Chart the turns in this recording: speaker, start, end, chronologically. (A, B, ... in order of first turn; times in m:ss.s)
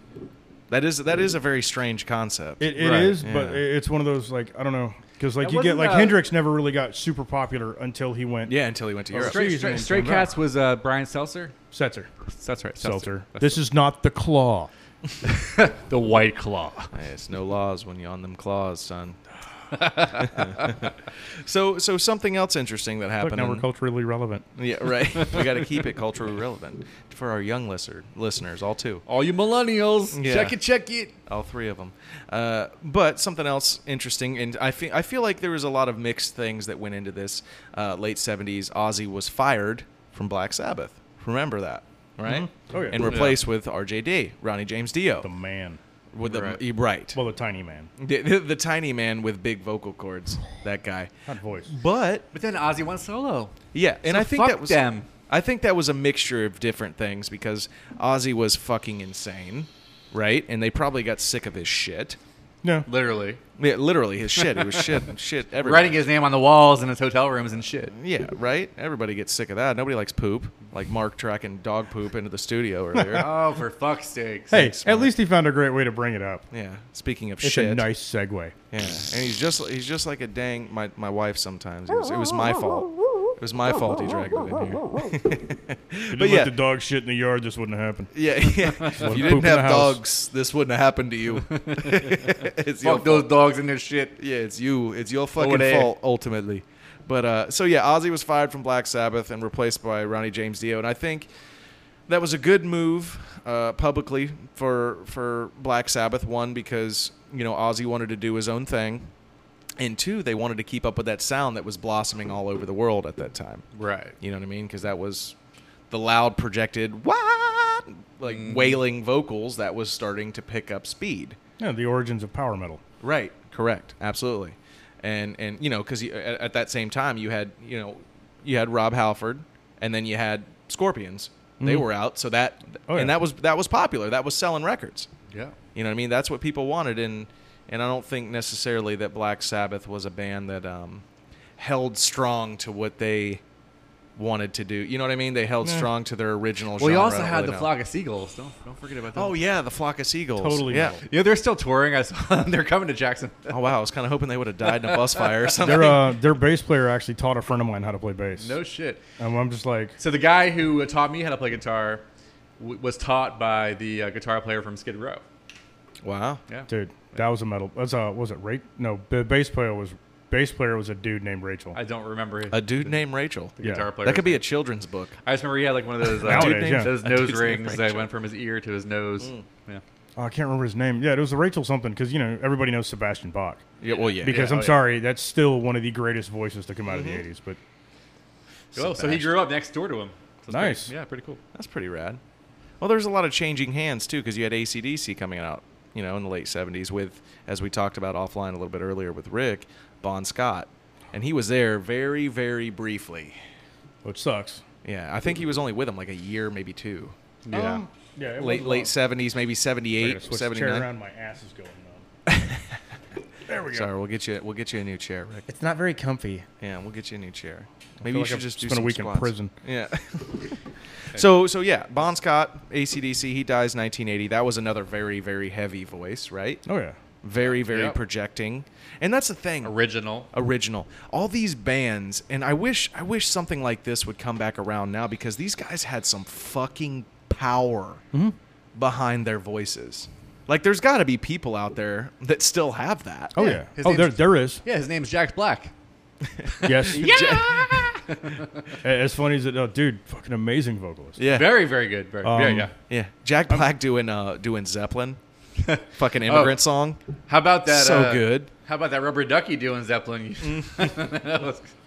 0:00.7-0:03.6 A
0:02.6-0:08.5 B
0:02.8-0:03.2 C
0:05.4-0:06.2 C
0:08.5-0:09.5 A
0:09.1-0:10.3 B
0:09.2-0:11.5 C
0:11.7-0:12.1 B
0:12.3-0:13.6 C
0:12.8-0:14.7 B
0:15.2-0:16.9 C
0:16.9-0:19.2 A
0:19.7-0:20.6 C
0:20.2-0:23.6 A
0:23.2-0:24.4 B
0:24.6-0:29.0 A
0:29.1-0:31.1 C
0:30.1-0:30.6 A
0:31.2-0:45.3 A
0:42.2-0:43.1 B
0:43.0-0:43.4 C
0:45.2-0:45.8 B
0:46.1-0:47.2 A
0:46.2-0:46.6 C
0:47.1-0:47.9 B
0:48.0-0:51.1 A
0:51.3-0:51.7 B
0:51.7-0:52.3 A
0:52.3-0:55.1 C
0:53.7-1:02.2 A
1:02.9-1:03.4 C
1:03.6-1:06.0 A
1:04.3-1:07.9 C
1:07.9-1:13.3 A
1:12.9-1:13.2 B
1:13.1-1:14.6 C
1:14.5-1:16.4 B
1:14.5-1:15.1 A
1:16.5-1:17.9 A
1:17.4-1:18.5 B
1:18.7-1:26.5 A
1:26.1-1:28.1 B
1:28.1-1:33.3 A
1:28.6-1:29.4 C
1:29.0-1:30.0 B
1:31.4-1:34.2 C
1:34.2-1:41.3 A
1:35.4-1:35.9 C
1:42.1-1:49.1 A
1:49.8-1:53.6 A
1:53.7-1:54.1 C
1:54.2-1:55.3 A
1:55.9-2:01.4 A
1:58.2-1:58.8 C
2:01.6-2:02.8 B
2:03.0-2:15.1 A
2:11.6-2:11.9 B
2:12.9-2:13.2 B
2:15.3-2:15.6 C
2:15.7-2:21.0 A
2:21.6-2:23.4 A
2:24.2-2:27.7 A
2:25.6-2:25.9 B
2:26.8-2:29.3 C
2:29.1-2:31.0 A
2:30.4-2:31.0 B
2:31.0-2:33.6 C
2:33.5-2:36.0 A
2:34.6-2:35.9 C
2:35.6-2:38.6 B
2:38.4-2:39.0 C
2:39.2-2:40.0 B
2:40.0-2:42.0 C
2:42.6-2:45.2 C
2:46.0-2:46.4 A
2:46.7-2:51.8 B
2:51.7-2:53.0 C
2:52.5-2:55.1 A
2:53.6-2:54.4 C
2:53.6-2:53.9 B
2:55.2-2:59.8 C
2:56.0-2:58.1 A
2:56.2-2:57.0 B
3:00.2-3:03.6 B
3:03.8-3:04.5 A
3:04.1-3:04.8 C
3:04.2-3:07.6 B
3:06.9-3:07.2 A
3:08.7-3:09.3 A
3:08.7-3:11.4 C
3:10.5-3:10.9 B
3:11.5-3:12.2 A
3:12.8-3:23.4 A
3:24.0-3:24.6 B
3:24.8-3:27.1 A
3:27.5-3:27.8 C
3:27.5-3:28.9 B
3:28.4-3:30.9 A
3:30.0-3:32.0 B
3:32.3-3:32.8 A
3:33.5-3:33.9 B
3:33.7-3:35.4 A
3:35.5-3:36.4 B
3:36.6-3:46.6 A
3:38.0-3:39.5 B
3:46.6-3:47.0 B
3:47.2-3:49.7 A
3:47.5-3:48.0 C
3:49.6-3:50.3 C
3:50.3-3:58.0 A
3:58.7-4:03.6 A
4:03.3-4:04.6 B
4:03.4-4:05.7 C
4:06.4-4:08.0 A
4:06.6-4:08.8 C
4:06.6-4:07.1 B
4:08.8-4:11.2 B
4:11.2-4:11.7 A
4:11.3-4:12.7 C
4:12.2-4:12.7 B
4:12.9-4:15.2 A
4:15.6-4:16.6 C
4:15.9-4:17.0 A
4:17.3-4:21.7 C
4:17.7-4:18.5 A
4:20.4-4:21.1 A